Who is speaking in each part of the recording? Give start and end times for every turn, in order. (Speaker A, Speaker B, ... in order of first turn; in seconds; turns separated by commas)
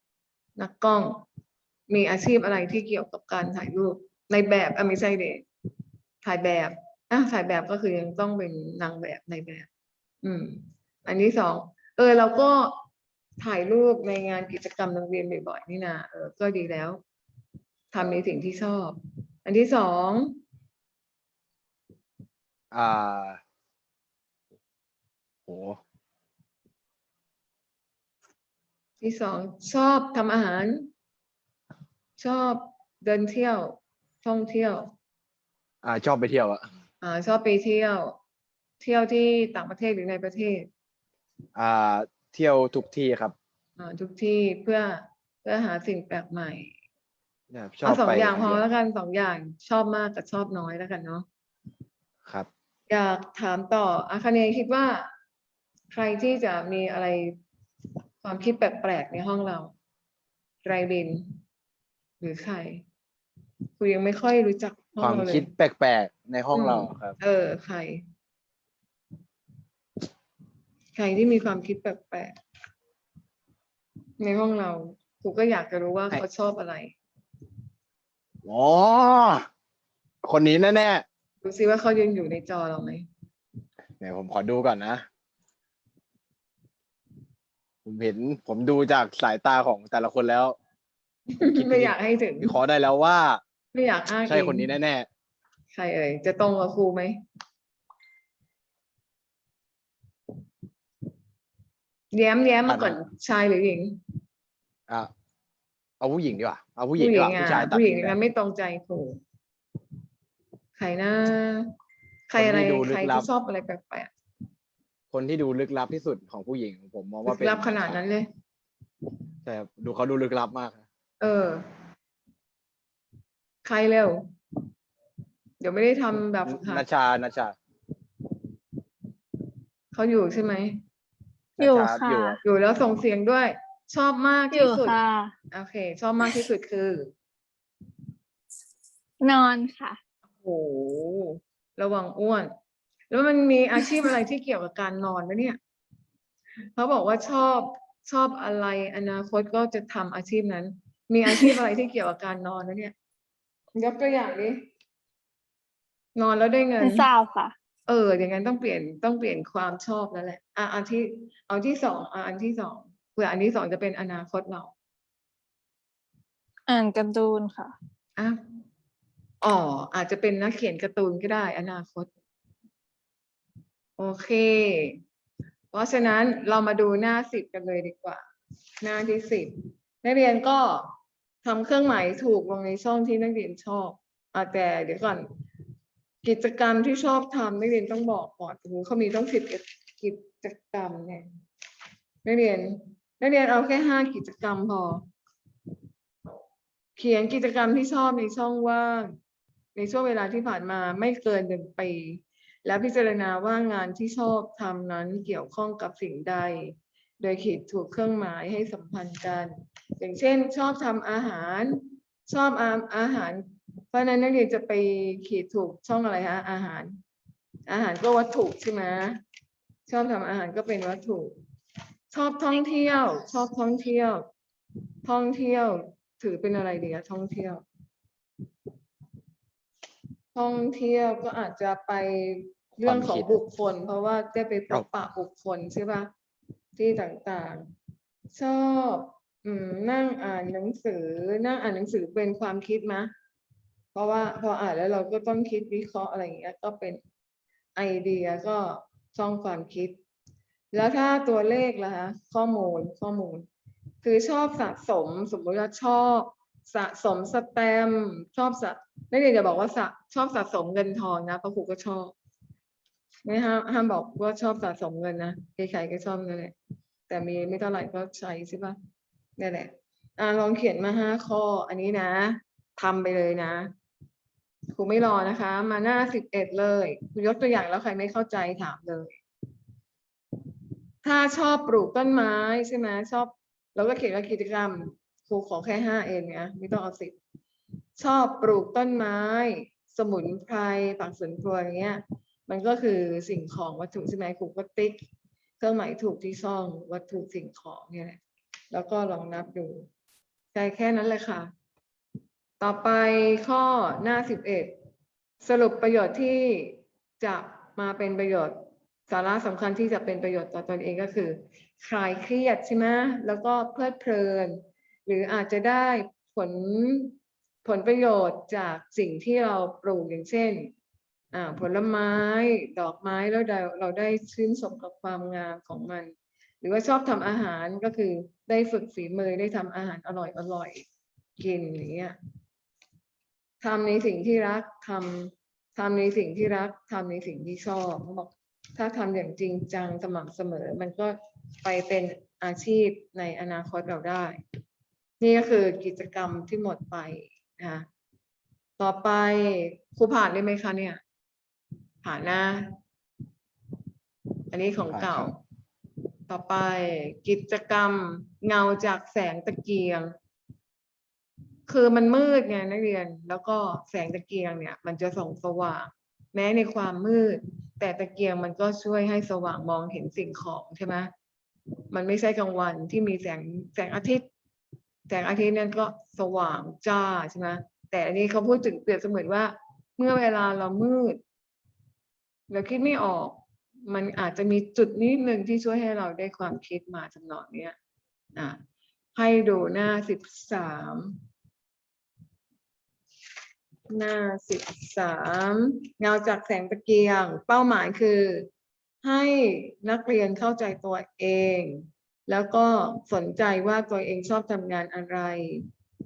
Speaker A: 0.6-1.2, Speaker A: 1.9-5.4, Speaker A: 6.2-9.7, Speaker A: 10.2-12.8, Speaker A: 13.4-17.0, Speaker A: 17.9-20.4, Speaker B: 22.7-23.4, Speaker B: 25.5-25.8, Speaker A: 29.0-30.9, Speaker A: 32.2-34.9, Speaker B: 35.8-36.7, Speaker A: 37.0-38.1, Speaker A: 38.8-40.7, Speaker B: 41.5-43.3, Speaker A: 43.8-46.7, Speaker B: 47.5-48.6, Speaker A: 47.8-51.2, Speaker A: 52.9-55.1, Speaker A: 55.9-57.4, Speaker A: 58.2-59.7, Speaker A: 60.6-61.3, Speaker A: 62.2-62.8, Speaker A: 63.8-65.5, Speaker B: 65.0-67.2, Speaker A: 66.5-68.0, Speaker A: 70.9-72.4, Speaker A: 74.2-77.0, Speaker B: 78.4-79.4, Speaker B: 80.2-81.0, Speaker A: 81.4-83.1, Speaker B: 84.0-85.0, Speaker B: 87.8-90.5, Speaker A: 91.3-92.5, Speaker B: 91.4-93.4, Speaker A: 93.7-94.7, Speaker B: 94.3-95.1, Speaker A: 95.7-97.2, Speaker A: 102.1-104.0, Speaker B: 102.7-103.0, Speaker B: 106.0-108.2, Speaker A: 107.0-109.2, Speaker A: 110.8-111.7, Speaker A: 112.3-114.1, Speaker B: 112.3-113.3, Speaker B: 115.1-118.0, Speaker A: 117.2-118.3, Speaker B: 119.4-120.8, Speaker A: 121.2-121.6, Speaker A: 123.6-124.2, Speaker A: 125.6-126.8, Speaker B: 126.5-127.5, Speaker A: 129.9-130.8, Speaker B: 131.6-132.4, Speaker C: 131.6-132.4, Speaker A: 132.4-135.0, Speaker C: 134.5-135.3, Speaker A: 135.5-137.1, Speaker C: 139.2-140.0, Speaker A: 140.4-142.5, Speaker A: 143.1-145.6, Speaker A: 146.8-152.9, Speaker A: 153.8-154.6, Speaker A: 156.2-157.1, Speaker C: 156.8-157.5, Speaker A: 157.9-164.7, Speaker C: 166.7-167.7, Speaker A: 169.4-172.1, Speaker A: 174.0-175.0, Speaker A: 175.7-178.2, Speaker A: 178.8-180.9, Speaker A: 181.4-185.2, Speaker A: 186.2-191.2, Speaker A: 192.2-195.0, Speaker A: 196.9-199.1, Speaker A: 199.7-217.0, Speaker A: 217.7-219.2, Speaker A: 219.9-221.3, Speaker A: 222.1-224.3, Speaker A: 225.0-227.6, Speaker A: 230.3-236.1, Speaker B: 232.8-233.3, Speaker A: 236.8-237.6, Speaker A: 238.3-243.1, Speaker A: 243.9-247.0, Speaker A: 247.8-250.0, Speaker A: 250.7-253.5, Speaker A: 254.0-262.1, Speaker A: 263.2-266.5, Speaker A: 267.1-268.8, Speaker A: 269.4-273.7, Speaker A: 274.7-279.2, Speaker A: 281.0-287.2, Speaker A: 288.0-295.0, Speaker A: 295.6-298.2, Speaker A: 298.7-299.9, Speaker A: 300.5-301.5, Speaker A: 302.6-304.7, Speaker A: 305.4-308.5, Speaker A: 309.1-317.1, Speaker A: 317.6-320.7, Speaker A: 321.3-330.9, Speaker A: 331.4-332.1, Speaker A: 333.6-344.4, Speaker A: 345.2-347.9, Speaker A: 348.8-351.0, Speaker A: 352.0-352.7, Speaker A: 354.5-355.4, Speaker B: 354.9-355.3, Speaker A: 356.3-360.1, Speaker A: 361.7-371.1, Speaker A: 371.9-374.2, Speaker A: 375.1-381.2, Speaker A: 382.5-387.8, Speaker A: 389.1-391.2, Speaker A: 393.9-398.5, Speaker A: 399.0-405.6